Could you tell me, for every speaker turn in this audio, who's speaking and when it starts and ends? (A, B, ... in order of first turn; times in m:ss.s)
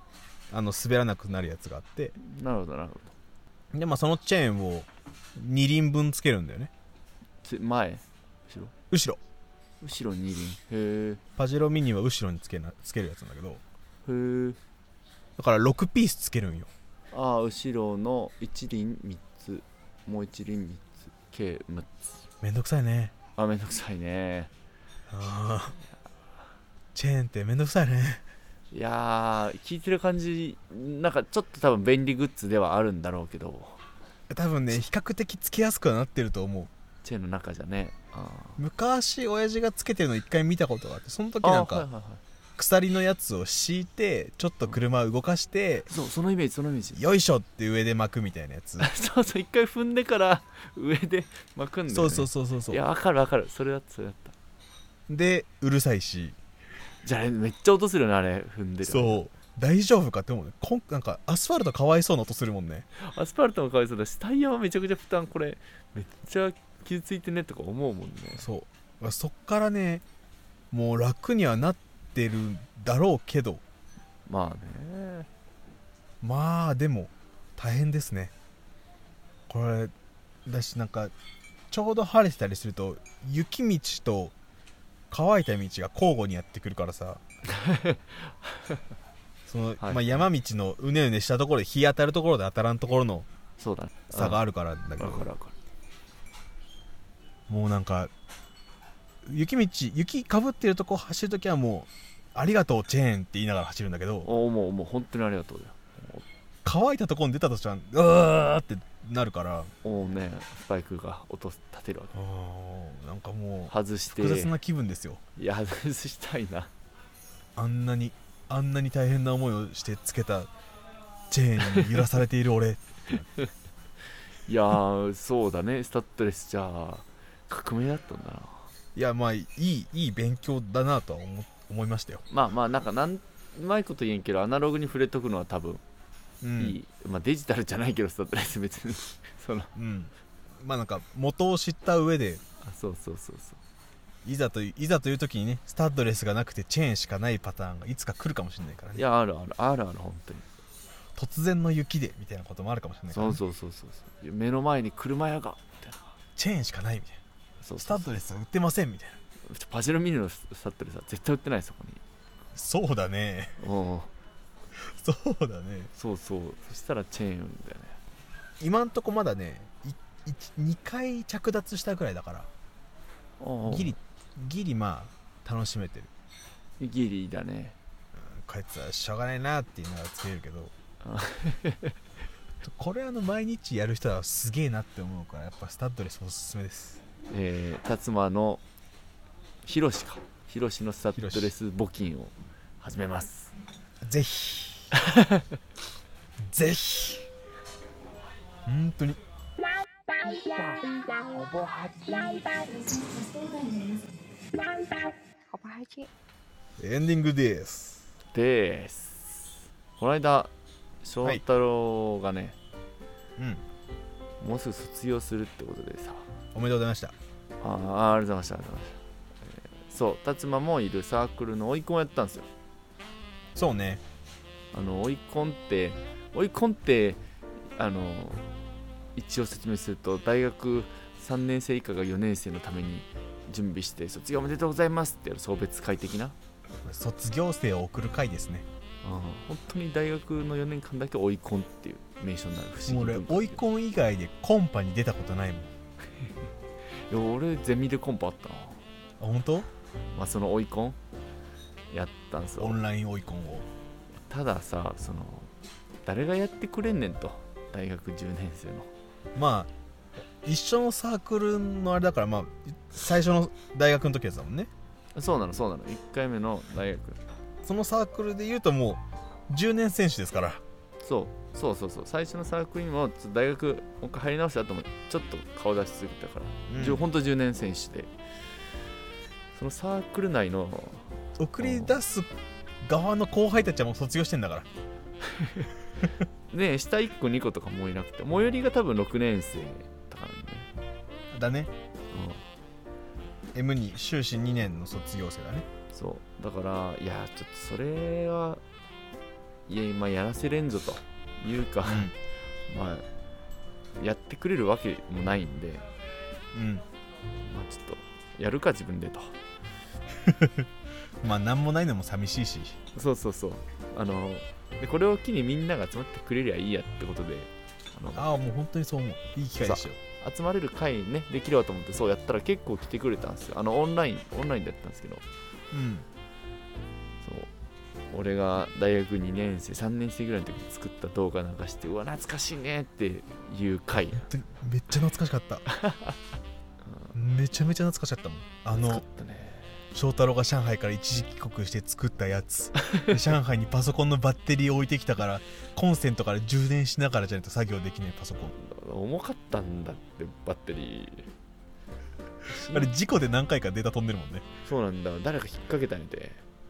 0:00.5-0:02.2 A
0:02.2-0:03.2 B
0:03.7-0:06.7 A
0:07.4-0:08.7 B
0:08.9-0:09.2 A
0:09.8-0:11.2 B
0:11.4-0:13.6 A
0:14.0-0:14.6 B
0:15.4-0:16.7 A
0:17.1-0:22.1 B
0:22.4-0:23.1 A
0:23.4-0:24.5 B
0:25.1-0:25.8 A
0:27.0-0:28.2 A
0:28.7-0:33.8 B
0:34.3-0:36.7 A
0:37.0-0:38.6 B
0:38.6-0:41.9 A
0:41.4-0:42.2 B
0:42.6-0:45.9 A
0:45.9-0:47.0 B
0:47.0-0:48.9 A
0:48.8-0:54.3 B
0:51.9-0:52.8 A
0:55.1-0:56.4 A
0:57.0-0:59.2 B
0:58.9-1:02.9 A
1:03.0-1:08.5 B
1:08.4-1:10.0 A
1:10.7-1:13.6 A
1:14.3-1:15.3 B
1:16.2-1:18.3 A
1:19.5-1:19.9 A
1:20.4-1:21.1 A
1:21.7-1:24.3 A
1:25.1-1:27.2 A
1:27.5-1:28.8 B
1:29.5-1:33.3 A
1:29.8-1:30.2 B
1:33.6-1:34.4 B
1:34.1-1:35.3 A
1:35.0-1:35.6 B
1:37.5-1:38.1 A
1:39.2-1:44.3 A
1:44.2-1:46.2 B
1:46.6-1:49.7 A
1:49.8-1:52.2 B
1:52.1-1:55.2 A
1:53.7-1:54.5 B
1:55.4-1:56.7 B
1:57.6-2:00.5 A
2:01.3-2:03.3 A
2:04.5-2:08.7 B
2:09.0-2:12.2 A
2:12.3-2:15.8 B
2:16.4-2:16.8 A
2:16.6-2:19.7 B
2:19.8-2:22.4 A
2:22.6-2:23.6 B
2:24.2-2:29.0 A
2:29.0-2:30.5 B
2:31.2-2:33.4 A
2:33.1-2:36.0 B
2:36.4-2:37.2 A
2:37.6-2:38.1 B
2:37.8-2:39.2 A
2:39.5-2:42.0 B
2:42.5-2:43.6 A
2:43.6-2:44.1 B
2:44.8-2:45.9 A
2:45.9-2:48.0 B
2:48.6-2:52.5 A
2:53.4-2:54.0 B
2:53.7-2:56.1 A
2:56.8-2:57.8 B
2:58.2-3:00.7 A
3:01.0-3:02.0 B
3:02.6-3:07.0 A
3:07.3-3:08.6 B
3:09.6-3:13.5 B
3:11.2-3:11.5 A
3:14.0-3:14.9 A
3:15.0-3:15.5 B
3:16.4-3:17.3 A
3:18.7-3:19.2 A
3:20.1-3:26.1 C
3:26.8-3:28.1 A
3:28.3-3:30.5 B
3:31.0-3:32.6 B
3:33.4-3:33.6 A
3:34.4-3:36.3 B
3:36.5-3:37.2 A
3:37.6-3:42.5 B
3:43.6-3:44.0 A
3:44.7-3:47.2 B
3:47.8-3:48.4 B
3:49.2-3:56.4 B
3:56.8-3:58.7 A
3:59.0-4:03.6 B
4:02.9-4:05.7 A
4:07.1-4:08.8 B
4:09.2-4:09.7 A
4:10.1-4:11.0 B
4:11.9-4:12.8 B
4:12.6-4:13.7 A
4:14.3-4:15.5 B
4:16.0-4:18.9 B
4:19.4-4:19.7 A
4:20.4-4:24.7 A
4:25.2-4:27.2 B
4:27.6-4:30.6 A
4:31.0-4:38.1 B
4:36.7-4:37.1 A
4:39.5-4:42.0 B
4:41.4-4:42.3 A
4:42.8-4:44.7 A
4:45.2-4:45.7 B
4:46.5-4:50.7 B
4:51.3-4:51.7 A
4:52.1-4:52.4 B
4:53.5-4:55.7 A
4:55.9-4:58.6 B
4:59.7-5:02.1 B
5:01.8-5:02.2 A
5:02.7-5:03.1 B
5:04.0-5:05.8 B
5:06.5-5:06.8 A
5:07.4-5:09.4 B
5:10.2-5:10.7 A
5:11.2-5:12.8 A
5:13.0-5:18.3 B
5:18.2-5:20.0 A
5:19.6-5:25.2 B
5:25.7-5:26.1 A
5:27.2-5:27.5 B
5:28.1-5:34.3 B
5:34.3-5:35.7 A
5:35.7-5:36.2 B
5:36.9-5:37.2 B
5:37.2-5:39.0 A
5:38.7-5:39.8 B
5:39.9-5:48.5 A
5:42.8-5:43.1 B
5:48.5-5:51.3 B
5:52.5-5:52.9 B
5:52.6-5:54.5 A
5:54.6-5:56.4 B